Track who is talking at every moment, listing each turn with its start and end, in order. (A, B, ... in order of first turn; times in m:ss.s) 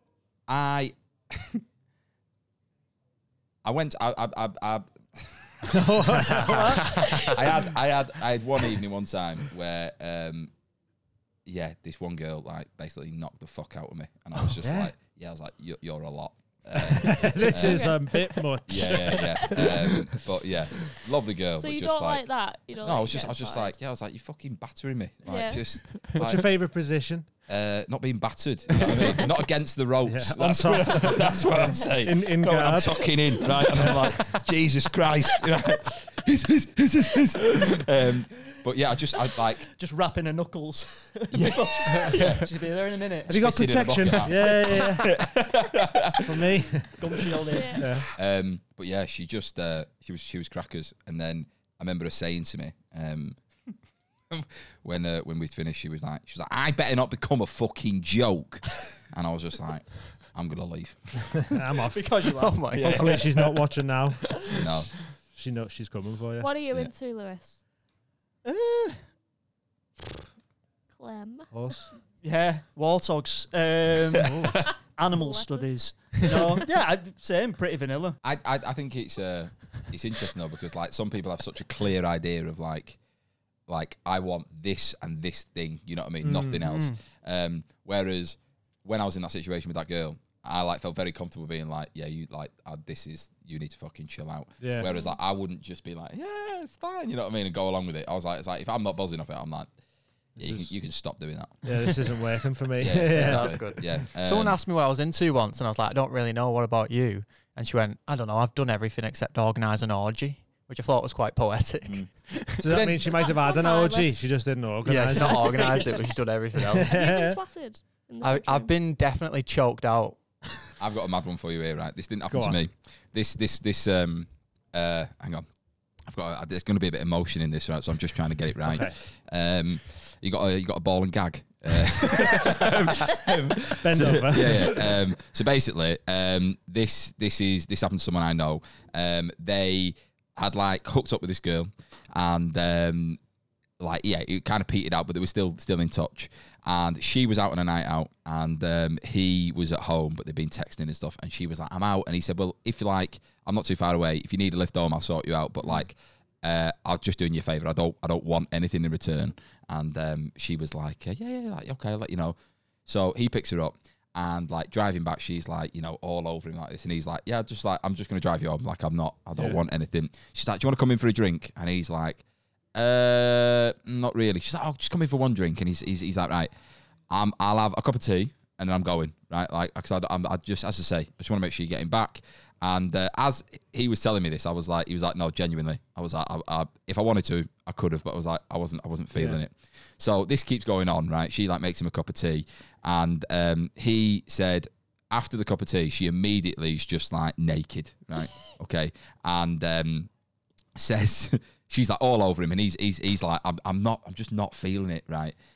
0:00.5-0:01.6 A
0:03.6-0:10.5 A
0:05.6-0:07.6 B
0:06.6-0:07.3 C
0:11.4-0:17.9 A
0:14.4-0:14.9 B
0:16.7-0:19.2 B
0:17.4-0:18.4 D
0:18.7-0:22.2 A
0:19.1-0:19.7 D
0:21.5-0:23.8 D
0:22.8-0:26.5 A
0:25.2-0:25.6 D
0:26.2-0:27.3 B
0:27.5-0:39.7 A
0:30.0-0:34.3 B
0:39.7-0:43.4 E
0:41.3-0:42.4 A
0:43.3-0:45.2 B
0:43.3-0:46.6 A
0:46.2-0:47.0 B
0:47.0-0:48.0 E
0:47.5-0:47.8 D
0:47.8-0:48.1 B
0:48.1-0:53.4 A
0:54.3-1:01.4 A
1:01.4-1:02.1 B
1:01.9-1:02.9 E
1:02.3-1:03.6 C
1:02.7-1:04.6 B
1:02.8-1:03.1 A
1:04.2-1:04.6 C
1:04.5-1:04.9 A
1:05.3-1:06.5 B
1:06.4-1:07.6 D
1:08.4-1:09.0 E
1:10.9-1:11.5 D
1:11.5-1:11.9 B
1:12.2-1:18.2 E
1:14.3-1:14.6 A
1:15.1-1:15.8 D
1:18.2-1:23.0 A
1:23.7-1:39.7 A
1:26.2-1:26.8 B
1:34.6-1:34.9 B
1:34.8-1:35.2 D
1:40.4-1:40.7 B
1:40.4-1:42.1 A
1:41.6-1:43.8 B
1:42.8-1:44.6 A
1:43.1-1:52.8 C
1:52.6-1:55.9 B
1:52.7-1:53.0 A
1:53.1-1:54.3 D
1:54.8-1:56.9 C
1:55.5-1:56.0 D
1:56.6-1:57.4 B
1:56.7-1:58.7 D
1:58.2-2:00.2 C
2:00.8-2:05.5 A
2:02.3-2:02.6 B
2:06.1-2:23.2 A
2:08.6-2:09.0 B
2:12.2-2:13.0 C
2:13.8-2:15.0 B
2:23.8-2:52.2 A
2:52.7-2:56.5 A
2:57.1-3:20.1 A
3:09.1-3:09.4 B
3:20.8-3:25.4 A